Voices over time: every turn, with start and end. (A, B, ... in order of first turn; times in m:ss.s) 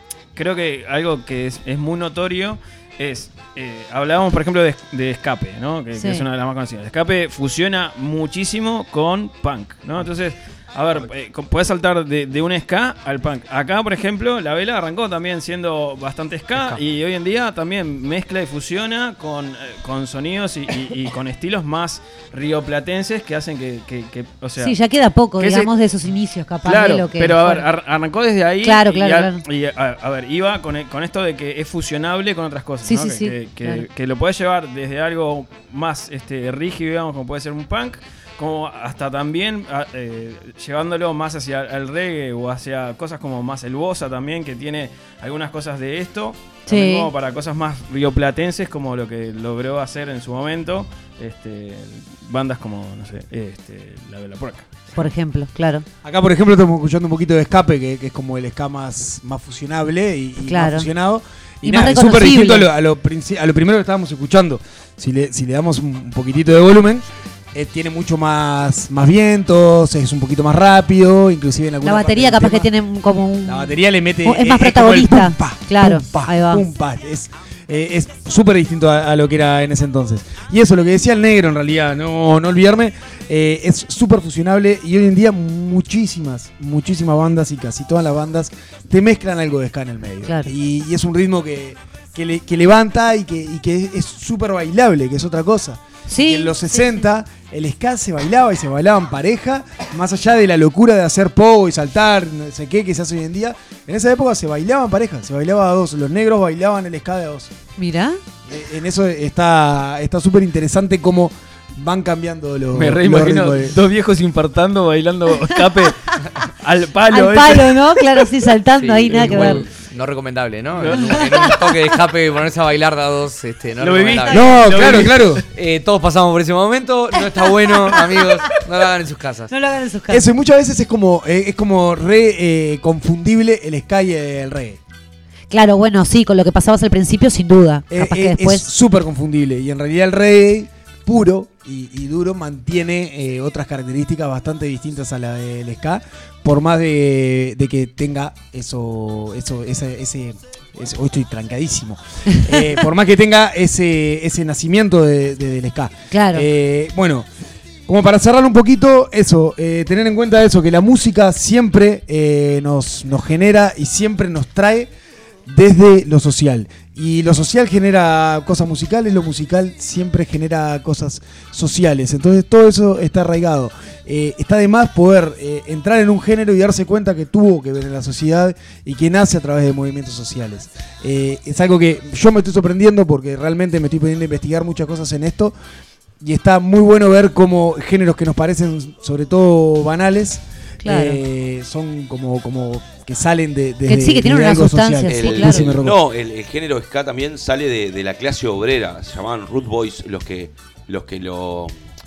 0:00.3-0:24.8 A
0:05.9-0:06.2 B
0:24.6-0:27.6 B
0:25.4-0:25.7 A
0:26.6-0:54.8 A
0:28.6-0:29.4 B
0:32.8-0:33.8 B
0:46.6-0:47.1 B
0:55.0-0:55.8 B
0:56.0-1:12.7 C
1:00.4-1:00.9 B
1:01.6-1:02.7 B
1:11.8-1:16.6 B
1:13.4-1:47.5 C
1:30.2-1:30.5 B
1:36.1-1:37.0 B
1:47.8-1:48.2 B
1:48.4-1:53.8 C
1:52.7-1:58.3 A
1:57.1-1:59.6 B
1:58.8-2:09.5 D
1:59.2-1:59.5 A
2:00.8-2:01.6 A
2:03.8-2:05.4 A
2:04.3-2:05.4 C
2:09.5-2:10.2 B
2:10.1-2:14.8 C
2:15.5-2:18.7 B
2:17.9-2:37.3 C
2:36.1-2:36.4 B
2:37.9-2:44.9 C
2:45.5-3:05.5 C
3:06.2-3:16.0 C
3:10.8-3:11.2 B
3:13.9-3:15.7 B
3:15.1-3:21.7 E